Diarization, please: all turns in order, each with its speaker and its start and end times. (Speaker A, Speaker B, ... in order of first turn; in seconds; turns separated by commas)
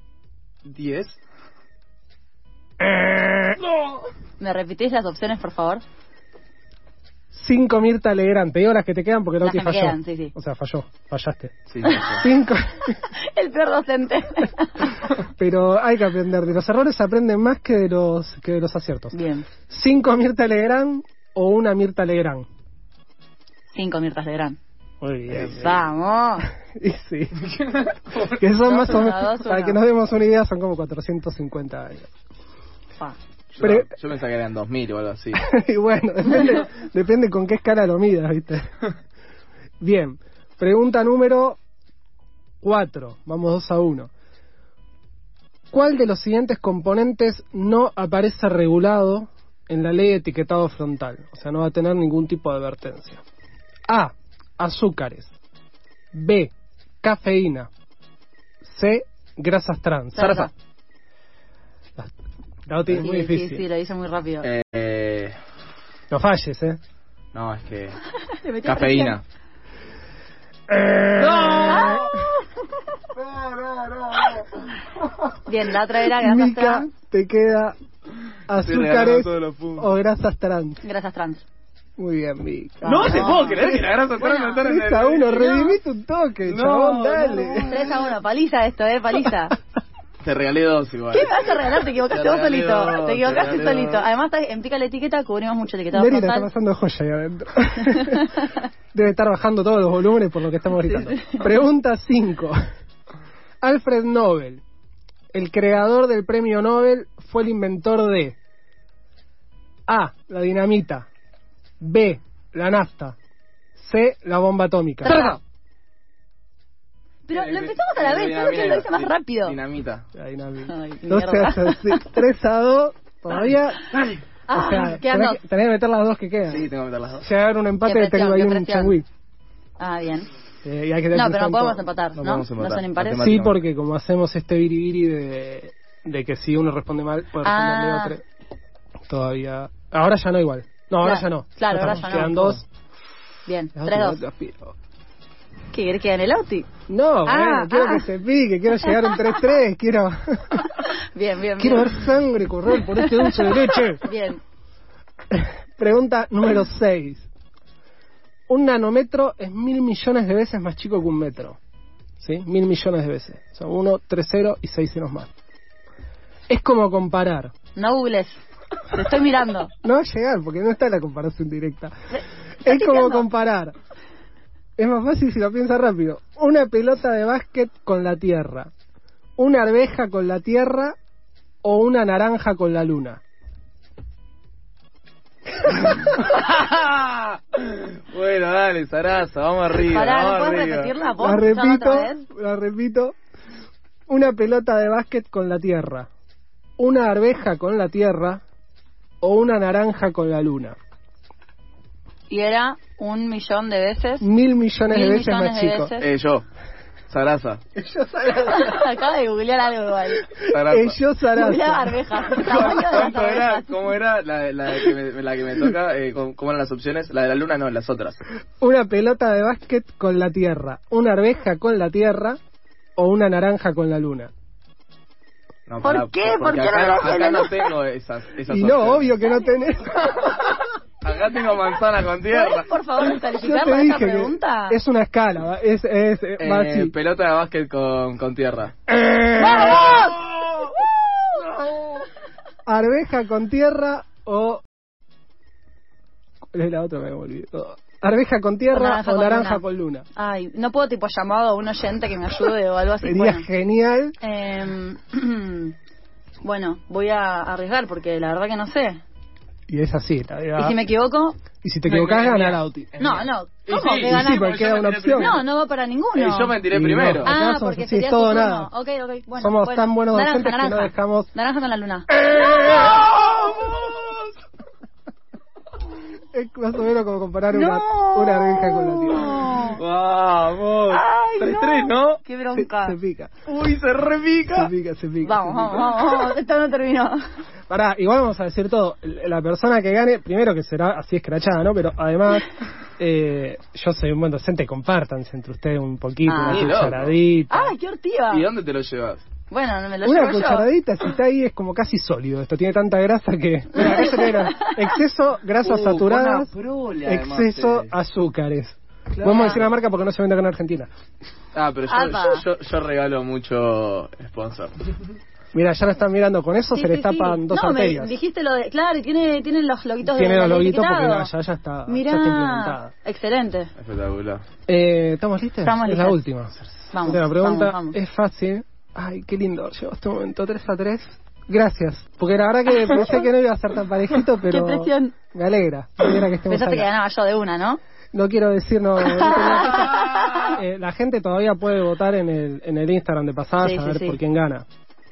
Speaker A: 0.7-1.2, Speaker B: 2.8-3.6, Speaker C: 4.4-5.8, Speaker B: 7.3-12.9, Speaker C: 9.4-10.3, Speaker A: 11.7-12.2, Speaker C: 13.0-14.8, Speaker B: 15.1-22.4, Speaker C: 19.1-19.5, Speaker C: 23.7-24.6, Speaker B: 25.0-25.8, Speaker A: 25.4-25.7, Speaker C: 25.5-26.5, Speaker B: 26.8-27.4, Speaker A: 27.5-28.3, Speaker B: 28.2-32.1, Speaker C: 28.6-29.8, Speaker A: 33.5-35.4, Speaker B: 33.6-33.9, Speaker B: 35.3-38.6, Speaker B: 39.8-41.6, Speaker B: 42.6-44.1, Speaker B: 45.7-53.2, Speaker B: 53.9-55.3, Speaker B: 56.1-56.5, Speaker B: 57.0-57.7, Speaker B: 58.6-60.5, Speaker A: 60.1-60.5, Speaker B: 62.7-63.6, Speaker C: 63.0-64.5, Speaker A: 64.4-65.3, Speaker B: 66.1-66.8, Speaker A: 67.3-68.0, Speaker C: 68.3-69.2, Speaker A: 68.6-69.2, Speaker B: 70.7-72.1, Speaker A: 71.2-72.2, Speaker C: 71.7-72.0, Speaker A: 73.2-74.5, Speaker C: 75.5-76.9, Speaker B: 76.0-77.7, Speaker B: 78.5-80.8, Speaker A: 78.6-79.9, Speaker C: 80.8-81.4, Speaker B: 82.0-83.9, Speaker C: 82.8-84.7, Speaker A: 82.8-85.7, Speaker B: 84.6-87.8, Speaker A: 86.4-88.0, Speaker C: 87.6-89.5, Speaker A: 90.2-91.5, Speaker C: 91.1-96.5, Speaker A: 92.1-94.0, Speaker B: 95.9-98.3, Speaker C: 98.0-98.3, Speaker B: 98.9-102.5, Speaker C: 100.8-101.5, Speaker B: 103.6-104.6, Speaker B: 105.3-108.3, Speaker B: 109.9-111.1, Speaker B: 111.8-113.2, Speaker B: 113.8-115.2, Speaker A: 115.0-115.4, Speaker C: 115.1-115.4, Speaker C: 117.3-119.6, Speaker A: 117.3-120.0, Speaker B: 120.1-123.9, Speaker C: 120.7-122.0, Speaker A: 123.9-124.2, Speaker C: 124.5-125.4, Speaker B: 124.5-126.7, Speaker A: 126.5-127.3, Speaker B: 127.2-129.1, Speaker C: 127.8-129.0, Speaker C: 129.8-130.3, Speaker B: 130.6-131.8, Speaker C: 131.1-133.3, Speaker A: 132.1-133.6, Speaker B: 133.2-138.2, Speaker C: 137.4-138.2, Speaker B: 139.1-142.7, Speaker C: 141.0-142.6, Speaker C: 143.4-144.2, Speaker B: 143.8-144.7, Speaker C: 145.7-146.7, Speaker B: 146.9-150.6, Speaker C: 147.2-148.1, Speaker C: 150.8-152.0, Speaker B: 151.6-154.1, Speaker C: 153.0-154.4, Speaker B: 155.3-157.3, Speaker B: 158.5-161.6, Speaker B: 162.2-165.3, Speaker B: 166.5-167.5, Speaker C: 167.7-168.4, Speaker C: 168.9-169.7, Speaker B: 169.8-171.9, Speaker C: 172.1-173.2, Speaker B: 172.6-173.7, Speaker B: 174.8-178.7, Speaker B: 179.4-180.9, Speaker B: 181.6-183.2, Speaker A: 185.7-190.9, Speaker C: 189.8-192.2, Speaker B: 191.2-193.1, Speaker B: 194.1-196.1, Speaker B: 196.8-198.4, Speaker B: 199.2-200.8, Speaker C: 202.3-204.3, Speaker B: 204.2-205.9, Speaker C: 204.9-206.1, Speaker A: 206.0-206.4, Speaker A: 207.1-207.6, Speaker B: 207.8-208.9, Speaker C: 208.5-210.2, Speaker B: 210.2-212.8, Speaker A: 210.5-210.9, Speaker C: 211.3-213.7, Speaker A: 212.3-218.2, Speaker B: 218.6-222.4, Speaker B: 223.0-224.3, Speaker A: 225.7-229.2, Speaker C: 225.8-227.7, Speaker B: 228.5-230.6, Speaker A: 231.0-232.7, Speaker C: 232.3-234.8, Speaker B: 233.1-236.9, Speaker A: 236.4-238.7, Speaker B: 238.9-240.7, Speaker C: 239.4-240.1, Speaker A: 239.6-240.0, Speaker B: 241.4-242.0, Speaker B: 242.7-244.6, Speaker B: 246.5-250.1, Speaker C: 248.7-249.6, Speaker C: 250.2-253.4, Speaker B: 253.0-254.2, Speaker C: 254.2-255.8, Speaker C: 256.4-259.0, Speaker B: 259.7-260.8, Speaker C: 260.6-261.4, Speaker B: 261.6-262.9, Speaker A: 261.9-265.4, Speaker C: 263.0-264.5, Speaker B: 264.0-265.4, Speaker C: 265.1-266.6, Speaker A: 266.1-267.3, Speaker B: 266.7-268.7, Speaker C: 267.2-272.1, Speaker B: 269.3-271.3, Speaker A: 272.2-274.3, Speaker B: 272.3-272.8, Speaker B: 276.3-279.5, Speaker C: 277.5-279.8, Speaker A: 279.5-282.2, Speaker C: 280.9-283.0, Speaker B: 282.5-283.3, Speaker A: 283.5-284.7, Speaker B: 284.5-285.9, Speaker C: 285.2-287.2, Speaker B: 287.7-297.7, Speaker C: 296.2-296.7, Speaker A: 296.4-297.1, Speaker C: 297.5-298.5, Speaker A: 298.3-299.2, Speaker C: 299.5-300.7, Speaker B: 300.0-306.5, Speaker C: 303.8-304.8, Speaker A: 303.8-304.1, Speaker A: 305.6-307.9, Speaker B: 307.0-310.9, Speaker A: 309.2-309.6, Speaker C: 309.3-309.6, Speaker A: 311.5-314.7, Speaker C: 311.9-312.4, Speaker B: 315.5-318.1, Speaker C: 316.7-321.3, Speaker B: 320.1-322.9, Speaker C: 321.9-323.7, Speaker A: 323.8-324.4, Speaker B: 324.7-336.9, Speaker C: 325.6-326.2, Speaker C: 326.9-327.9, Speaker C: 334.5-335.1, Speaker C: 336.5-337.8, Speaker B: 338.1-344.6, Speaker C: 339.2-340.5, Speaker A: 339.4-340.5, Speaker C: 343.6-344.2